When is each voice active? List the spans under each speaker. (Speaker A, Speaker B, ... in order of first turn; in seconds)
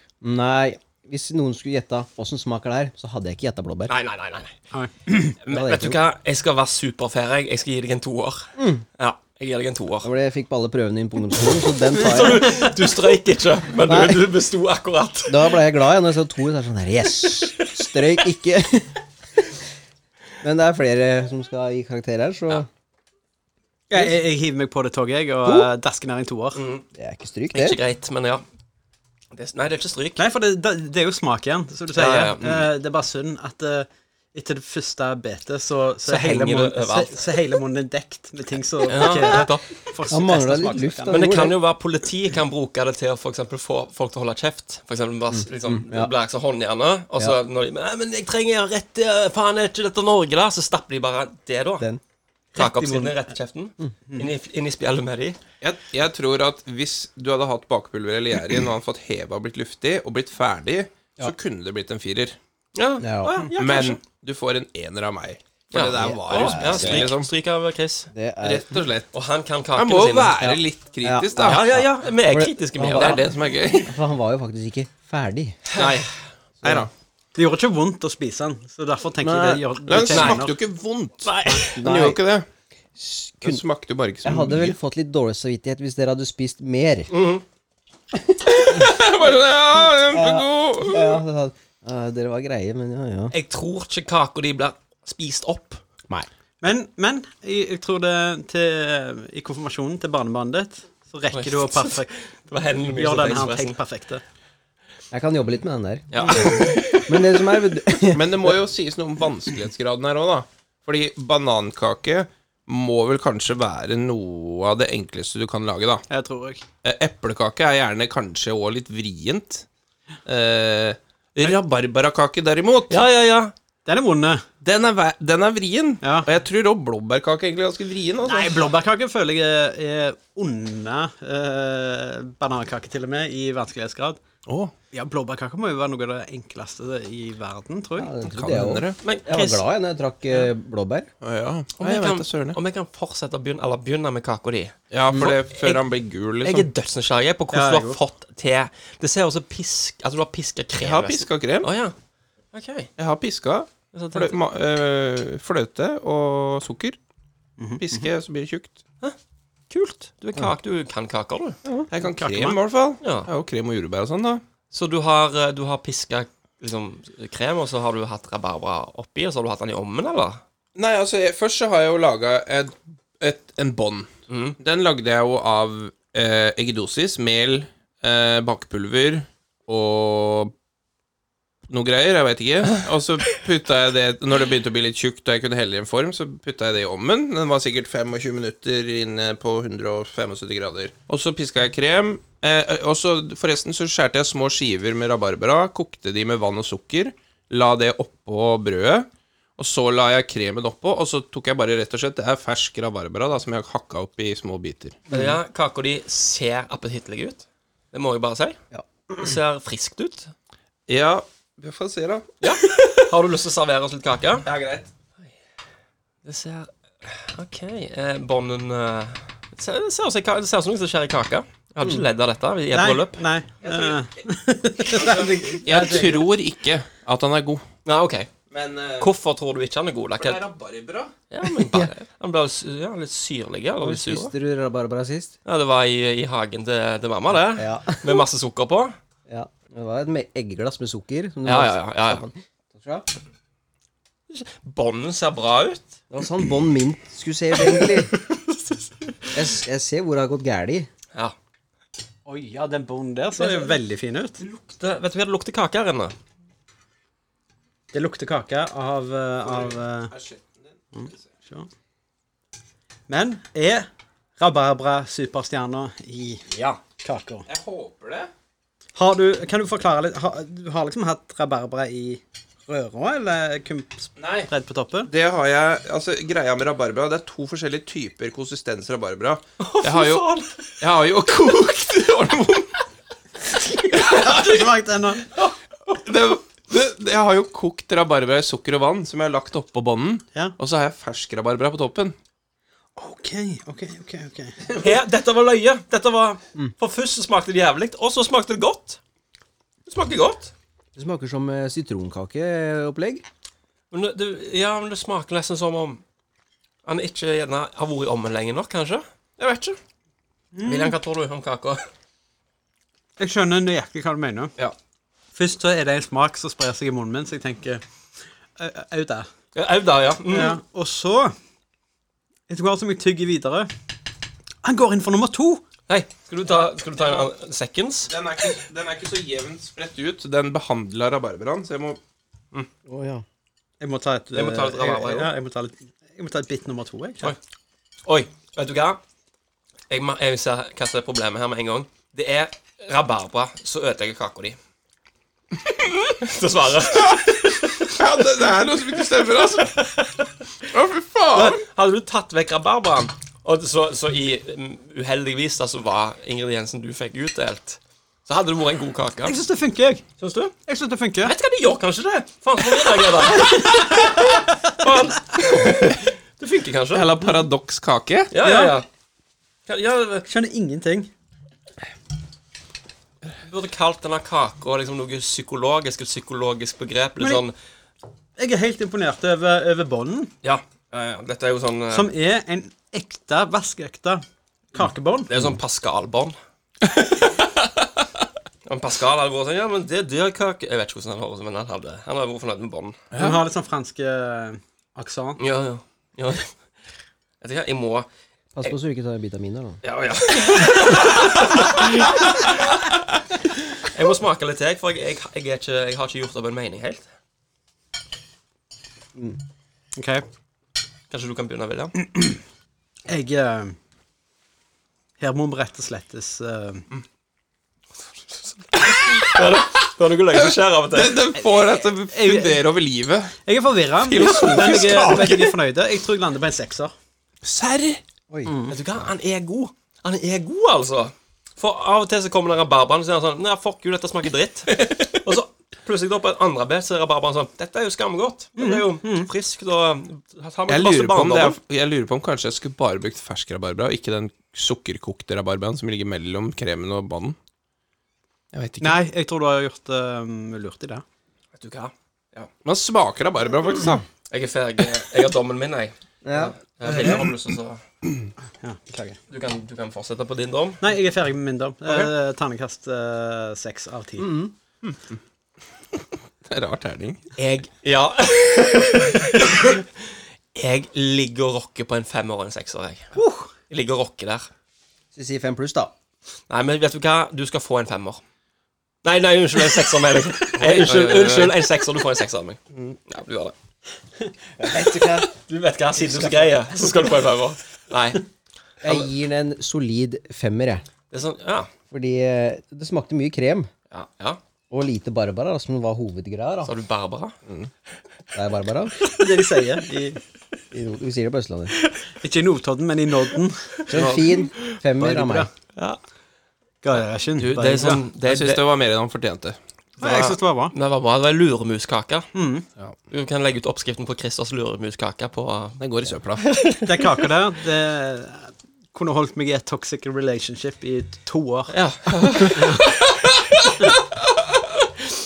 Speaker A: 0.2-3.9, 5.5-6.0, 8.6-8.8, 10.0-12.7, 13.8-14.2, 15.3-19.0, 20.4-22.7, 26.9-27.8, 40.1-41.5, 45.3-46.1, 63.0-63.4, 66.0-67.1, 68.1-68.8, 70.4-73.2, 73.8-75.6, 79.2-79.6, 81.7-82.2, 83.0-83.6, 84.2-87.1, 90.1-93.3, 105.1-108.5, 138.0-141.1, 205.1-205.4, 231.5-231.9, 233.8-235.3, 237.6-238.2, 239.3-243.1, 246.1-248.2, 249.3-250.9, 300.9-303.2, 332.9-333.2, 398.6-399.8, 428.3-428.6, 456.2-456.6, 464.2-464.5, 475.1-475.9, 484.6-485.2, 488.8-490.8, 491.9-493.7, 494.7-496.7, 498.3-499.1, 500.7-501.7, 503.9-505.5
Speaker B: 3.9-4.5, 5.4-10.1, 11.9-15.6, 17.4-17.7, 26.6-26.9, 27.5-28.4, 29.3-30.2, 31.9-32.7, 36.0-37.3, 38.9-39.6, 41.1-51.9, 52.5-55.4, 62.7-64.0, 65.7-68.1, 69.1-70.3, 71.4-73.3, 75.7-76.1, 80.1-80.5, 81.2-81.8, 87.1-87.4, 93.3-95.8, 101.3-103.8, 106.1-107.3, 122.9-123.5, 139.0-139.4, 141.8-145.8, 146.4-151.9, 152.5-152.9, 153.9-154.4, 159.7-161.6, 163.0-163.3, 164.7-170.4, 174.3-174.6, 205.1-208.6, 209.2-210.3, 212.4-214.4, 216.2-223.3, 227.8-228.3, 229.0-230.4, 231.3-234.3, 235.4-238.9, 241.4-242.2, 244.3-246.0, 253.4-253.8, 254.4-256.1, 266.5-266.8, 279.6-280.6, 294.8-299.0, 299.9-300.5, 303.9-306.0, 306.8-309.8, 310.6-311.8, 319.5-320.6, 325.9-328.1, 334.3-335.3, 338.0-339.0, 339.9-344.6, 346.2-347.9, 349.6-350.2, 351.4-359.4, 360.2-360.5, 361.2-367.1, 368.3-368.9, 369.7-370.3, 373.4-377.5, 380.4-382.1, 385.3-386.4, 388.6-393.1, 395.4-396.5, 397.4-398.1, 399.8-402.9, 403.8-407.1, 411.1-411.9, 418.8-421.3, 428.7-441.6, 451.5-452.5, 454.3-457.8, 459.3-460.9, 461.8-462.1, 467.4-473.1, 473.7-474.5, 476.5-478.2, 479.0-483.5, 485.1-488.2, 491.1-491.7, 493.9-494.4, 496.6-497.4, 507.4-508.6, 510.0-512.3, 513.1-515.8, 516.4-517.2, 521.7-523.0
Speaker C: 4.7-5.3, 23.9-26.6, 30.2-41.3, 52.5-53.2, 77.3-80.5, 96.6-102.1, 102.9-104.2, 116.1-116.6, 123.8-124.4, 126.0-126.3, 128.2-134.2, 134.9-138.1, 139.3-139.6, 147.5-148.0, 157.6-158.0, 162.0-162.6, 222.7-226.3, 252.2-254.4, 257.9-260.1, 260.9-261.7, 263.1-263.9, 264.4-266.5, 267.0-267.4, 268.9-275.1, 283.8-285.3, 292.9-294.9, 310.5-311.0, 313.2-314.5, 315.3-317.8, 318.6-319.3, 320.3-321.3, 322.5-323.7, 324.6-325.6, 333.8-337.3, 359.2-360.1, 360.7-361.3, 363.2-364.3, 368.4-368.8, 370.3-371.1, 377.2-377.4, 378.4-380.3, 381.9-384.2, 384.7-385.3, 393.2-395.4, 409.9-410.2, 413.1-413.8, 415.2-416.9, 421.9-422.6, 423.4-426.9, 428.4-428.8, 438.6-439.3, 448.8-451.0, 458.6-459.2, 460.8-464.3, 473.2-473.5, 484.8-485.1, 499.1-500.2, 502.2-504.0, 504.7-505.5, 506.8-508.0, 510.0-510.7, 512.3-512.7, 516.9-521.7
Speaker D: 55.6-62.4, 63.5-67.3, 68.4-69.1, 69.7-71.7, 72.9-73.9, 76.6-76.9, 79.9-82.5, 83.4-84.8, 88.5-91.2, 108.1-116.0, 116.8-119.7, 120.2-123.0, 124.6-128.7, 134.5-134.7, 138.2-139.0, 141.2-142.6, 144.9-146.7, 150.8-151.7, 153.0-157.0, 157.8-158.8, 161.9-164.4, 170.8-180.5, 181.7-205.0, 210.9-212.4, 214.4-214.9, 223.6-224.1, 224.8-227.6, 228.5-229.1, 230.2-231.1, 259.4-261.3, 267.5-268.3, 274.2-274.5, 275.1-280.3, 280.8-282.8, 283.9-284.6, 286.0-292.1, 328.1-332.0, 347.0-349.8, 350.7-351.6, 366.9-368.3, 393.1-393.4, 418.9-419.4, 420.9-423.4, 424.0-425.6, 427.4-428.0, 434.8-435.2, 440.7-447.4, 448.5-449.0, 452.6-454.0, 464.8-465.1, 466.4-467.2, 480.5-481.6, 503.9-504.2, 508.2-509.6, 515.8-516.5, 522.9-524.6